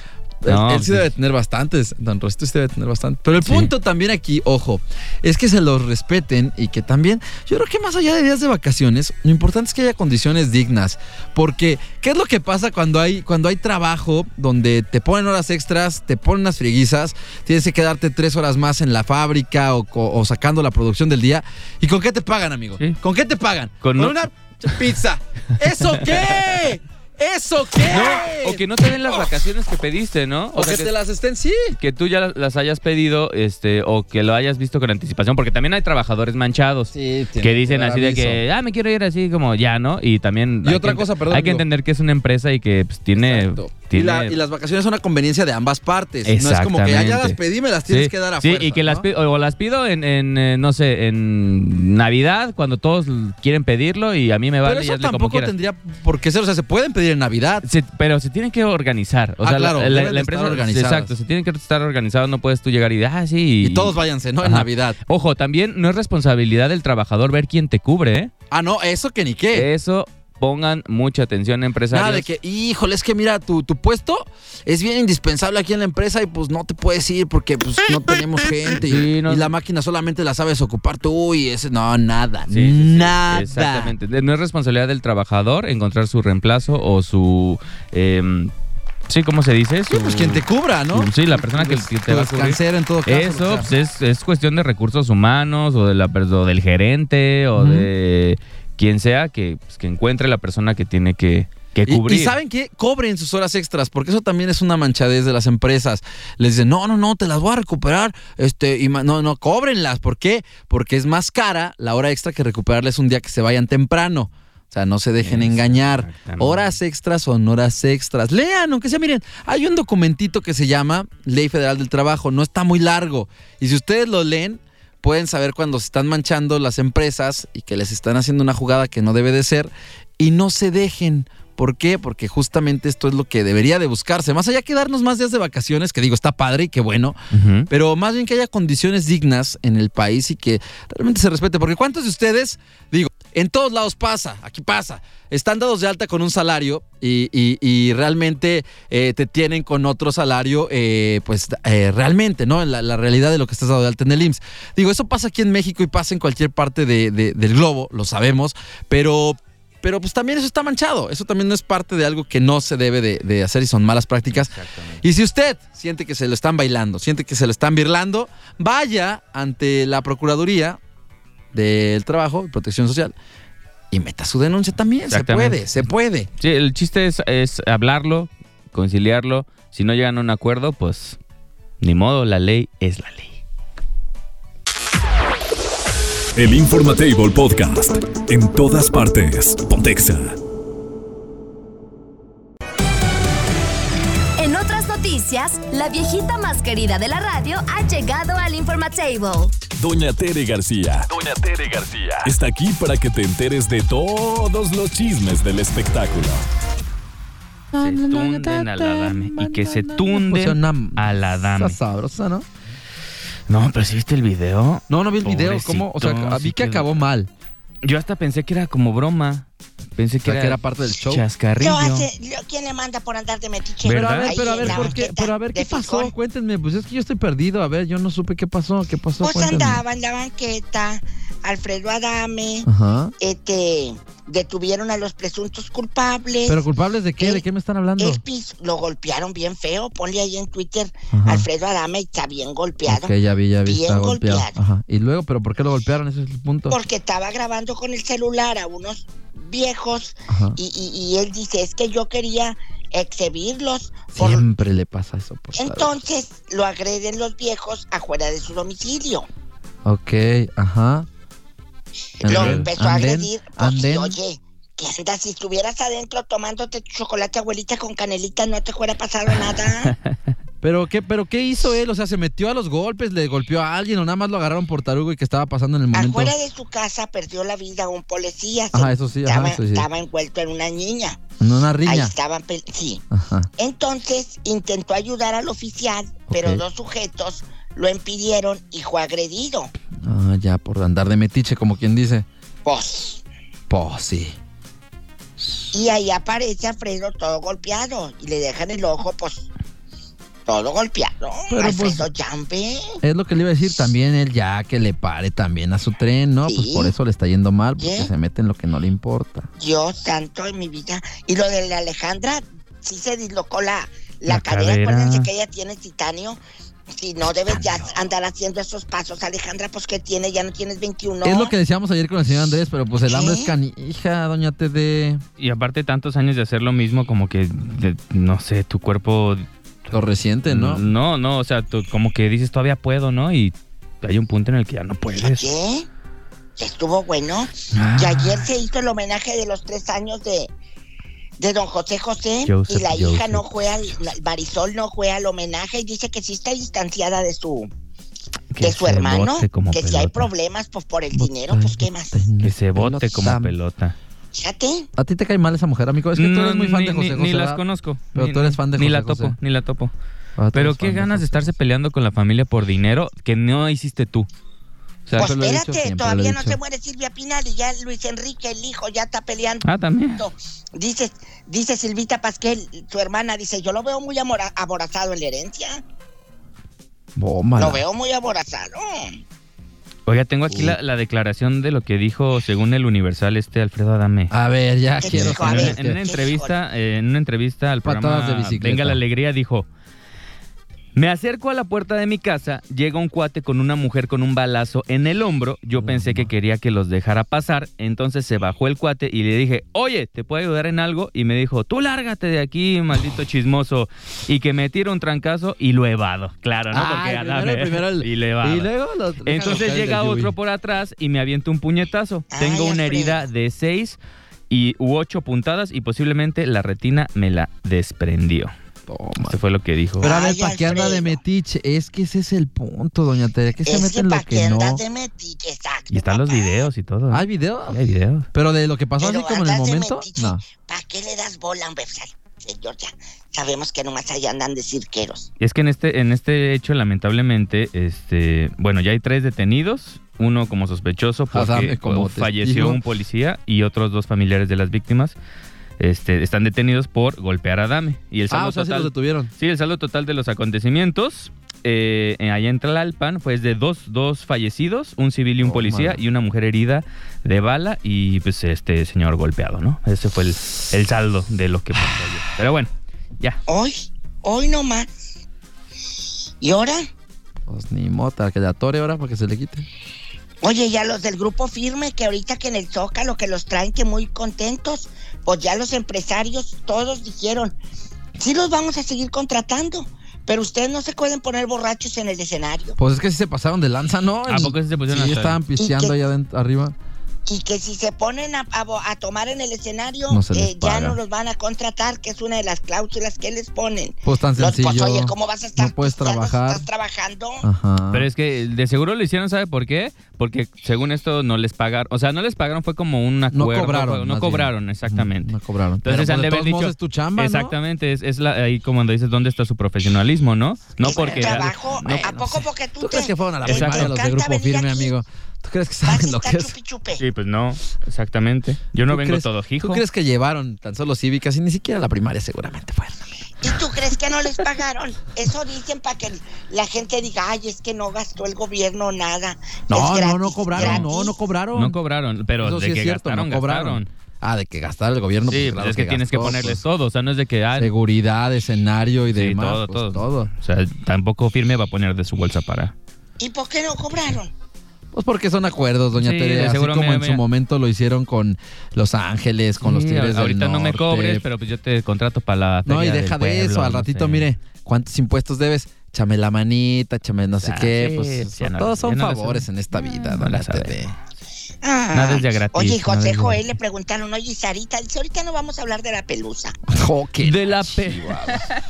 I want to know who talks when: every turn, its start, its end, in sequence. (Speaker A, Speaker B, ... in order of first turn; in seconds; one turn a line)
Speaker A: 0.4-29.3
Speaker B: 0.5-1.1
Speaker B: 3.4-3.7
Speaker B: 23.8-24.2
Speaker B: 25.8-26.6
Speaker B: 27.9-30.9
Speaker A: 30.5-31.8
Speaker B: 31.8-44.4
Speaker A: 36.9-38.4
Speaker A: 40.6-41.7
Speaker A: 43.2-49.1
Speaker B: 46.2-47.4
Speaker B: 47.9-55.5
Speaker A: 54.6-57.6
Speaker B: 57.6-68.3
Speaker A: 59.4-61.1
Speaker A: 63.6-65.0
Speaker A: 68.5-69.7
Speaker B: 69.5-72.3
Speaker A: 71.9-84.0
Speaker B: 78.9-79.5
Speaker B: 82.5-88.5
Speaker B: 89.1-102.4
Speaker A: 89.9-93.7
Speaker A: 97.6-97.9
Speaker A: 101.9-137.2
Speaker B: 115.2-116.8
Speaker B: 137.3-137.7
Speaker A: 137.7-170.8
Speaker B: 164.3-165.0
Speaker A: 171.5-173.2
Speaker A: 173.9-176.3
Speaker B: 175.1-175.6
Speaker B: 176.4-181.2
Speaker B: 181.8-183.4
Speaker C: 186.4-190.4
Speaker D: 194.4-199.6
Speaker C: 199.8-206.4
Speaker A: 207.7-212.5
Speaker B: 207.8-211.8
Speaker B: 213.5-217.0
Speaker A: 214.9-217.3
Speaker B: 217.8-222.1
Speaker A: 220.2-221.2
Speaker E: 221.6-226.1
Speaker B: 223.8-224.9
Speaker A: 223.9-229.8
Speaker E: 229.2-232.7
Speaker A: 232.7-233.1
Speaker E: 233.2-236.6
Speaker A: 236.5-238.2
Speaker E: 238.0-244.6
Speaker A: 241.1-241.5
Speaker A: 242.9-246.8
Speaker E: 246.7-254.4
Speaker A: 250.3-250.6
Speaker A: 254.1-256.0
Speaker E: 255.6-259.3
Speaker A: 259.9-261.1
Speaker E: 262.2-269.9
Speaker A: 262.2-264.2
Speaker B: 262.3-262.7
Speaker B: 269.9-270.2
Speaker A: 270.6-276.3
Speaker E: 275.9-281.2
Speaker A: 278.7-279.9
Speaker A: 281.4-282.1
Speaker E: 281.9-283.0
Speaker A: 283.1-283.5
Speaker E: 283.6-289.7
Speaker A: 286.3-286.6
Speaker A: 290.0-292.3
Speaker E: 292.6-293.2
Speaker A: 293.7-294.4
Speaker E: 295.7-299.5
Speaker E: 300.5-303.0
Speaker A: 301.5-302.1
Speaker A: 303.0-309.5
Speaker E: 306.5-306.9
Speaker E: 307.8-308.1
Speaker E: 309.6-316.4
Speaker B: 314.3-315.3
Speaker E: 316.9-321.5
Speaker A: 317.5-317.8
Speaker A: 321.2-325.2
Speaker E: 323.1-323.5
Speaker B: 325.4-329.5
Speaker A: 329.9-330.8
Speaker B: 330.5-335.5
Speaker E: 335.2-335.9
Speaker E: 336.6-340.5
Speaker B: 337.7-338.5
Speaker E: 341.4-347.7
Speaker B: 342.4-343.5
Speaker B: 348.5-350.3
Speaker E: 348.6-352.2
Speaker A: 351.1-353.5
Speaker B: 352.4-354.0
Speaker E: 354.3-354.9
Speaker A: 355.0-357.6
Speaker B: 356.2-359.9
Speaker A: 358.1-359.4
Speaker A: 360.4-361.5
Speaker B: 360.5-364.3
Speaker B: 365.1-365.3
Speaker A: 365.1-366.6
Speaker E: 365.2-375.8
Speaker B: 369.6-370.2
Speaker A: 377.2-377.8
Speaker E: 377.6-379.2
Speaker B: 380.1-384.3
Speaker A: 380.5-380.8
Speaker A: 384.3-386.0
Speaker E: 385.0-386.6
Speaker B: 385.1-389.7
Speaker A: 387.8-389.0
Speaker B: 390.9-408.7
Speaker A: 395.8-396.3
Speaker A: 406.7-410.3
Speaker B: 409.2-418.5
Speaker E: 412.3-413.2
Speaker A: 418.9-419.4
Speaker B: 419.2-420.1
Speaker A: 420.0-424.8
Speaker E: 420.0-421.2
Speaker E: 423.7-426.7
Speaker B: 425.9-428.3
Speaker A: 427.1-427.8
Speaker A: 428.3-430.4
Speaker E: 429.0-435.3
Speaker B: 435.4-445.2
Speaker A: 441.3-442.8
Speaker B: 445.8-463.4
Speaker A: 448.3-449.3
Speaker A: 455.4-456.0
Speaker E: 463.5-465.0
Speaker E: 466.4-466.9
Speaker A: 467.5-469.7
Speaker E: 470.4-477.6
Speaker E: 478.2-482.8
Speaker A: 482.8-486.8
Speaker B: 484.3-485.4
Speaker E: 485.6-486.0
Speaker E: 487.3-497.5
Speaker A: 490.1-491.0
Speaker A: 494.1-496.6
Speaker A: 497.4-498.1
Speaker B: 497.9-512.3
Speaker A: 503.3-507.6
Speaker A: 510.8-516.5
Speaker E: 510.8-514.9
Speaker B: 513.5-513.9
Speaker E: 515.9-517.0
Speaker B: 517.0-519.8
Speaker A: 518.9-523.0
Speaker E: 523.4-531.1
Speaker A: 529.7-531.8
Speaker B: 530.6-530.9
Speaker B: 531.5-533.9
Speaker A: 532.4-536.6
Speaker B: 535.3-537.7
Speaker A: 537.6-540.3
Speaker B: 539.1-542.7
Speaker E: 543.2-544.3
Speaker A: 544.9-551.2
Speaker B: 546.0-547.2
Speaker B: 549.6-554.3
Speaker A: 552.6-560.9
Speaker B: 557.4-561.0
Speaker E: 561.6-566.6
Speaker B: 561.9-563.4
Speaker A: 566.7-568.5
Speaker B: 567.2-568.5